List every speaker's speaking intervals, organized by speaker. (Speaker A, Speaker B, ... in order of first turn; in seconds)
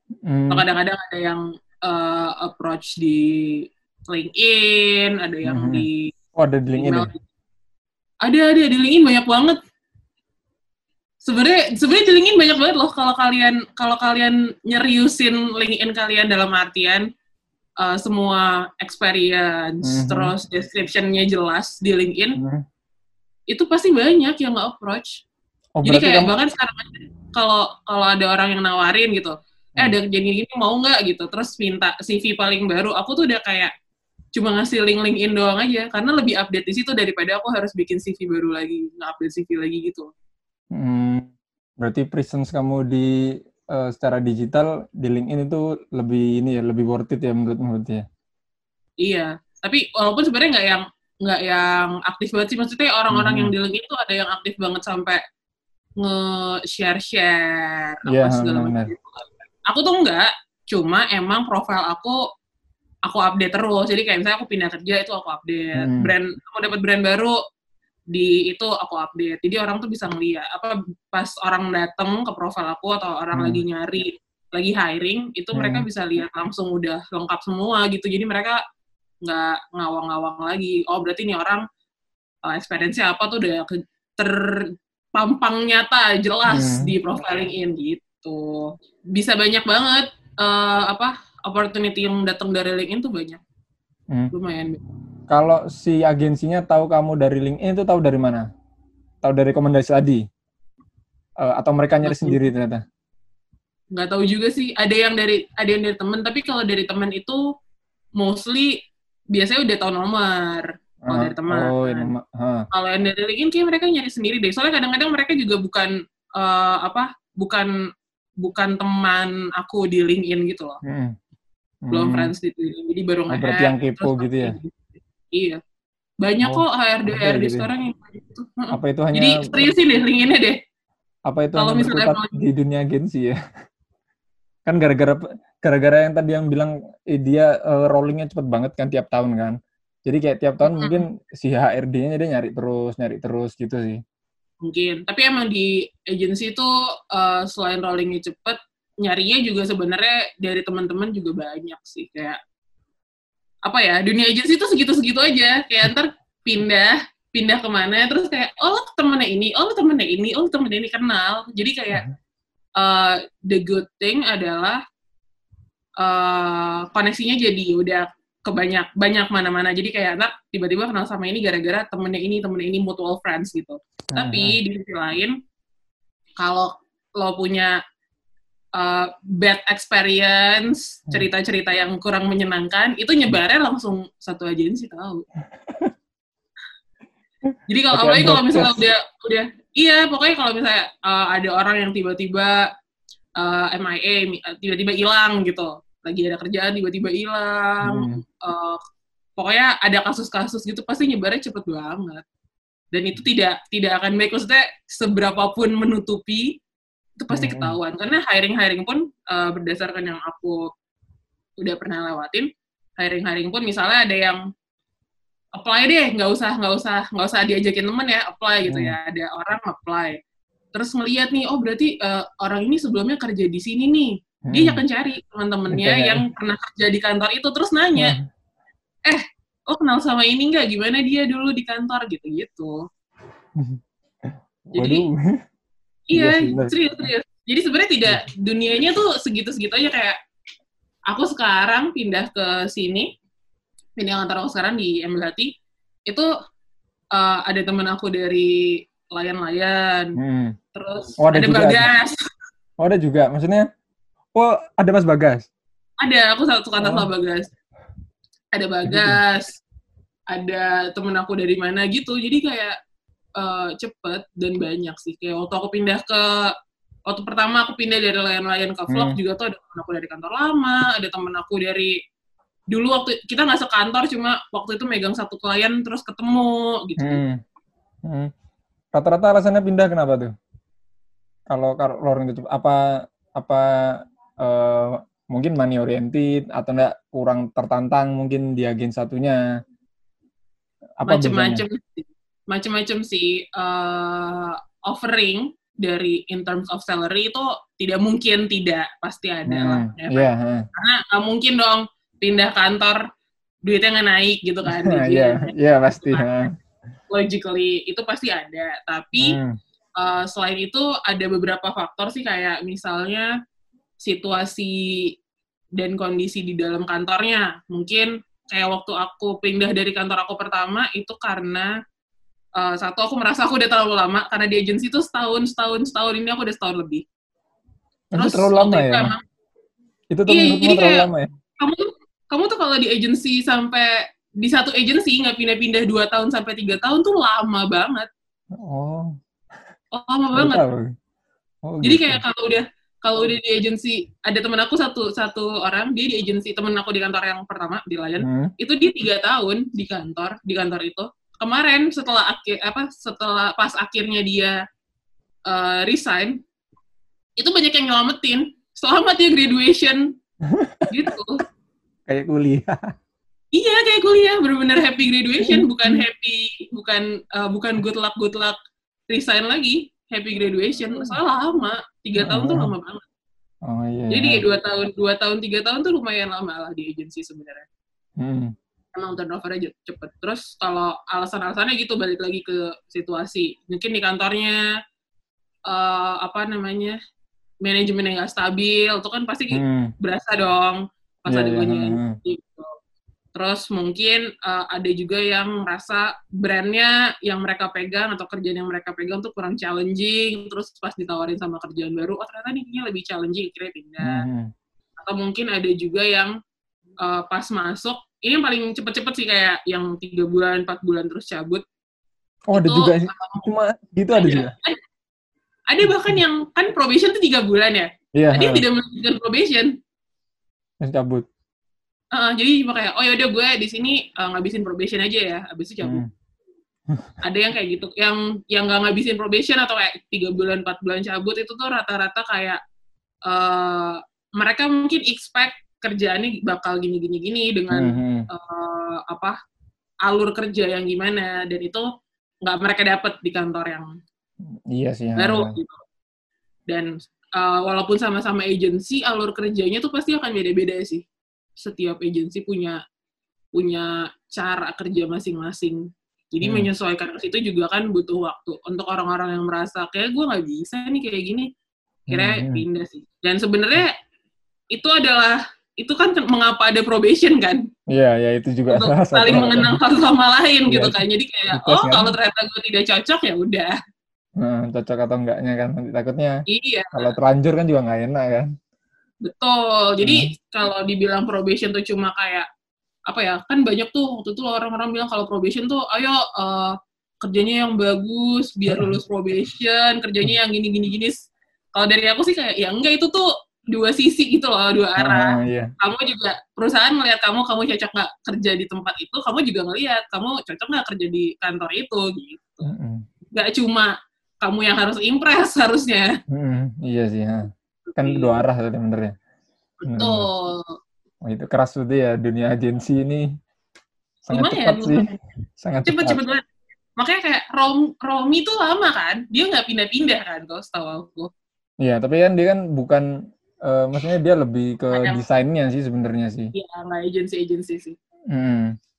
Speaker A: 0.2-0.7, 5.5-7.1, 19.8-20.3, 22.4-22.6, 25.8-26.3, 40.7-41.3, 41.8-48.0, 53.1-53.5, 58.1-58.9, 65.8-66.1, 73.3-73.6, 75.5-75.8, 86.5-86.9, 95.3-98.5, 99.2-100.2, 101.4-102.8, 111.0-112.6, 120.8-121.2, 121.8-122.3, 123.3-124.6, 126.4-127.7, 128.7-129.7, 131.3-133.4, 134.7-144.0, 174.1-174.6, 187.9-188.8, 197.8-198.2, 207.3-207.8, 218.7-219.0, 224.5-224.8, 225.7-226.2, 228.0-228.2, 233.6-235.3, 236.1-236.7, 250.2-250.6, 251.2-251.9, 252.8-253.7, 254.3-255.5, 256.8-257.1, 258.9-259.2, 268.9-269.2, 277.0-277.4, 278.0-278.3, 278.9-280.3, 281.5-289.4, 291.0-291.6, 299.5-300.6, 304.6-306.5, 309.2-309.6, 328.1-329.1, 330.1-331.3, 338.6-339.1, 340.4-340.9, 341.7-342.2, 348.2-348.5, 360.5-360.9, 362.1-362.8, 365.4-366.0, 372.2-372.7, 373.6-374.4, 378.2-378.5, 389.5-389.9, 391.3-392.2, 404.0-404.5, 412.5-414.5, 418.1-418.6, 420.8-421.2, 425.8-426.1, 437.7-438.3, 444.7-445.5, 456.4-456.7, 462.1-462.6, 467.9-469.8, 470.7-471.0, 471.5-472.1, 474.4-476.4, 476.9-478.5, 480.0-480.3, 488.7-489.0, 495.0-495.7, 502.6-503.0, 506.3-509.1, 509.9-510.3, 511.2-513.3, 514.2-515.0, 515.6-516.2, 521.8-523.0, 523.6-526.5, 528.3-528.8
Speaker B: 0.5-6.1, 6.8-7.2, 8.2-9.6, 11.2-17.1, 17.8-22.4, 23.5-25.2, 25.8-33.7, 34.3-40.1, 49.0-55.2, 56.0-62.2, 63.1-67.3, 68.1-78.6, 79.2-81.6, 82.5-93.4, 94.3-94.8, 102.0-102.4, 103.9-107.4, 108.2-108.8, 109.3-112.1, 112.7-117.7, 118.4-120.8, 121.9-125.6, 126.2-130.6, 131.6-132.3, 140.6-141.0, 144.6-152.4, 153.7-162.0, 162.8-164.8, 166.0-175.3, 176.4-177.7, 178.8-185.3, 187.7-192.6, 193.4-198.8, 199.4-202.2, 202.9-206.5, 207.2-210.6, 211.6-212.5, 213.0-214.4, 215.6-220.2, 220.8-228.1, 229.1-232.8, 234.8-235.0, 236.1-240.2, 241.1-243.1, 244.0-245.5, 247.1-250.2, 250.8-252.2, 256.0-257.5, 258.5-259.5, 260.3-262.8, 263.4-266.5, 267.1-272.0, 272.7-277.2, 291.1-303.0, 303.6-305.5, 307.1-309.4, 310.0-313.3, 314.0-315.1, 315.8-321.7, 322.6-327.0, 328.1-329.2, 330.3-331.1, 331.6-338.1, 339.9-340.6, 341.8-354.5, 355.5-356.4, 357.4-360.1, 360.9-361.4, 363.5-368.6, 369.1-373.0, 374.1-377.6, 378.9-384.6, 385.7-387.0, 387.6-392.7, 393.4-404.2, 405.0-406.3, 407.0-411.6, 412.5-413.4, 414.1-414.8, 415.7-419.7, 422.1-426.0, 427.2-432.6, 433.3-439.4, 440.1-441.9, 442.4-443.9, 445.2-445.8, 446.7-451.0, 451.6-452.8, 453.5-461.5, 462.1-463.9, 464.7-467.6, 468.7-473.7, 476.5-477.1, 479.2-482.5, 483.1-491.2, 491.8-502.7, 503.3-506.1, 507.9-508.4, 509.8-510.8, 514.3-515.2, 515.9-516.4, 517.0-521.3, 524.9-525.2, 526.5-528.0